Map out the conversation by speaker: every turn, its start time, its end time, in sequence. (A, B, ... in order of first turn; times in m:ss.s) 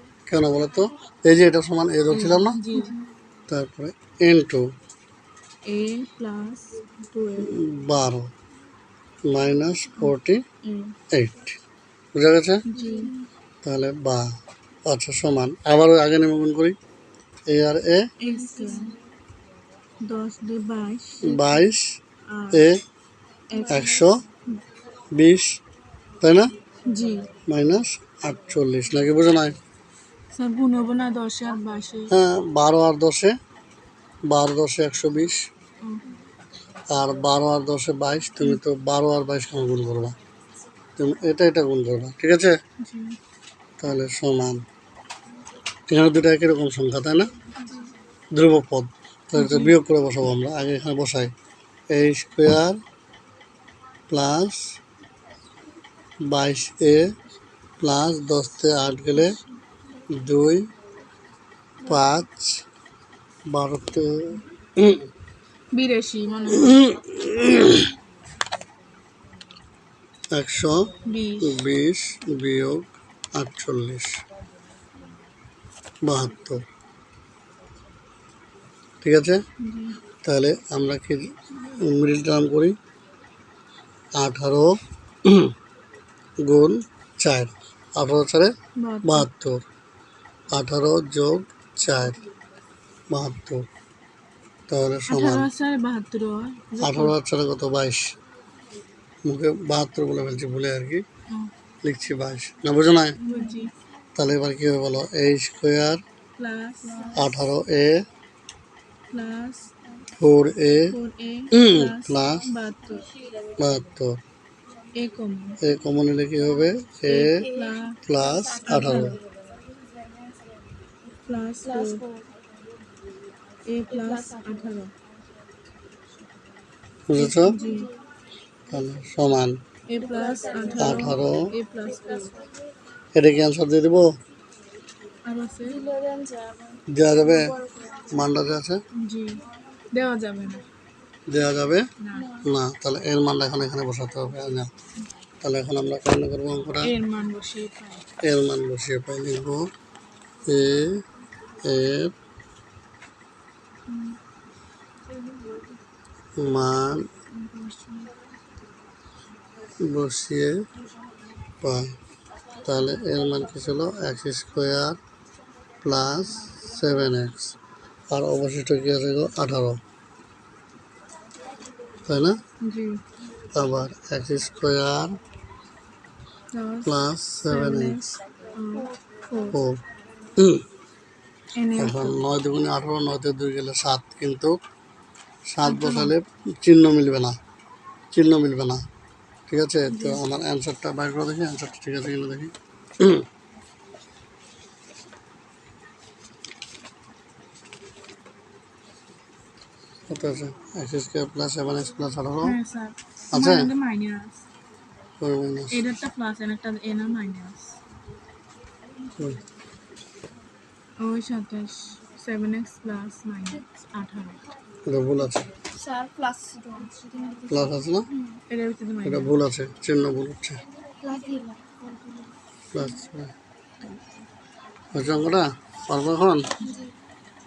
0:00.3-0:02.6 A
0:02.1-0:02.9 B
0:03.5-0:04.6 A
0:05.6-0:07.6 B
0:07.4-0:08.3 A
0:09.3-0:10.4 A
0:10.6-0:11.0 B
0:11.1-0:11.6 A
0:12.1-0:12.6 A
0:12.6-0:13.1 B
0:12.7-0:13.1 C
0:13.6-0:14.3 A
0:14.8-0:16.8 A
0:17.5-0:18.1 A
0:18.2-0:19.0 B
0:18.2-0:19.0 C
0:20.0-0:21.7 B
0:21.2-0:22.0 A
0:22.3-0:22.7 B
0:22.5-0:22.8 A
0:23.5-0:24.0 B
0:23.7-0:24.2 A
0:25.1-0:25.6 A
0:26.2-0:26.5 A
0:26.8-0:27.3 B
0:27.4-0:29.6 A
0:30.3-0:32.1 B
0:32.1-0:33.4 A
0:34.3-0:35.4 A
0:36.9-0:40.1 A
0:41.0-0:42.6 A
0:42.8-0:43.2 B
0:43.8-0:44.6 A
0:45.9-0:47.3 A
0:48.3-0:51.3 A
0:49.3-0:49.8 B
0:51.9-0:52.8 A
0:54.1-0:54.8 A
0:56.3-0:57.1 A
0:57.8-0:59.4 A
0:59.1-0:59.4 B
1:00.1-1:00.7 A
1:01.8-1:02.6 A
1:03.5-1:05.0 A
1:05.7-1:06.8 B
1:06.5-1:07.9 A
1:10.3-1:14.2 A
1:11.0-1:11.6 B
1:16.0-1:16.6 A
1:19.0-1:19.4 A
1:19.6-1:20.0 B
1:20.2-1:22.8 A
1:24.1-1:25.5 A
1:26.4-1:29.6 A
1:28.8-1:29.3 B
1:30.5-1:32.2 A
1:33.1-1:33.6 A
1:34.7-1:35.5 A
1:35.1-1:37.2 B
1:36.8-1:38.1 A
1:39.2-1:41.0 A
1:41.8-1:43.2 A
1:43.2-1:43.7 B
1:43.3-1:43.6 C
1:44.2-1:46.0 A
1:46.4-1:47.3 B
1:47.1-1:48.0 A
1:49.1-1:49.7 B
1:50.2-1:51.0 A
1:50.9-1:53.1 B
1:51.5-1:52.5 A
1:53.6-1:54.2 A
1:54.9-1:55.6 B
1:55.6-1:57.5 A
1:57.0-1:58.0 B
1:57.4-2:00.6 C
1:58.0-1:59.2 A
1:58.6-1:59.2 B
2:01.2-2:02.0 B
2:01.6-2:02.3 C
2:03.7-2:04.9 B
2:03.9-2:04.8 C
2:07.1-2:07.6 A
2:07.2-2:07.9 B
2:07.6-2:07.9 C
2:08.7-2:09.6 A
2:09.9-2:12.4 B
2:10.0-2:11.2 C
2:10.7-2:11.5 A
2:11.8-2:12.6 C
2:13.2-2:14.1 A
2:15.2-2:15.8 B
2:15.6-2:18.2 C
2:16.9-2:17.6 A
2:18.1-2:18.8 A
2:18.9-2:20.6 B
2:21.3-2:21.9 A
2:22.0-2:22.3 B
2:22.1-2:22.5 C
2:22.4-2:24.7 A
2:25.4-2:26.9 A
2:26.8-2:28.0 B
2:28.2-2:29.7 A
2:30.4-2:31.0 A
2:31.6-2:32.1 A
2:33.9-2:34.2 B
2:36.4-2:37.1 A
2:37.3-2:38.1 B
2:39.8-2:40.6 A
2:41.6-2:42.0 A
2:42.6-2:45.0 A
2:45.8-2:47.5 A
2:48.1-2:49.8 A
2:52.0-2:52.4 A
2:52.6-2:53.0 B
2:53.5-2:55.2 A
2:56.5-2:56.9 B
2:56.8-2:58.2 A
2:57.4-2:59.6 B
2:59.5-2:59.8 A
3:00.4-3:00.6 A
3:01.6-3:02.2 B
3:01.8-3:04.6 A
3:05.5-3:07.4 A
3:05.6-3:06.1 B
3:08.1-3:08.8 A
3:09.5-3:13.2 A
3:09.9-3:10.2 B
3:20.1-3:22.6 A
3:22.4-3:24.4 B
3:23.3-3:23.7 A
3:25.2-3:25.8 A
3:25.7-3:27.8 B
3:31.0-3:34.4 B
3:34.8-3:35.5 A
3:35.7-3:37.7 C
3:37.5-3:38.1 A
3:38.5-3:39.4 B
3:39.0-3:40.6 A
3:41.0-3:42.4 C
3:42.7-3:43.3 A
3:44.9-3:46.5 A
3:46.6-3:46.9 C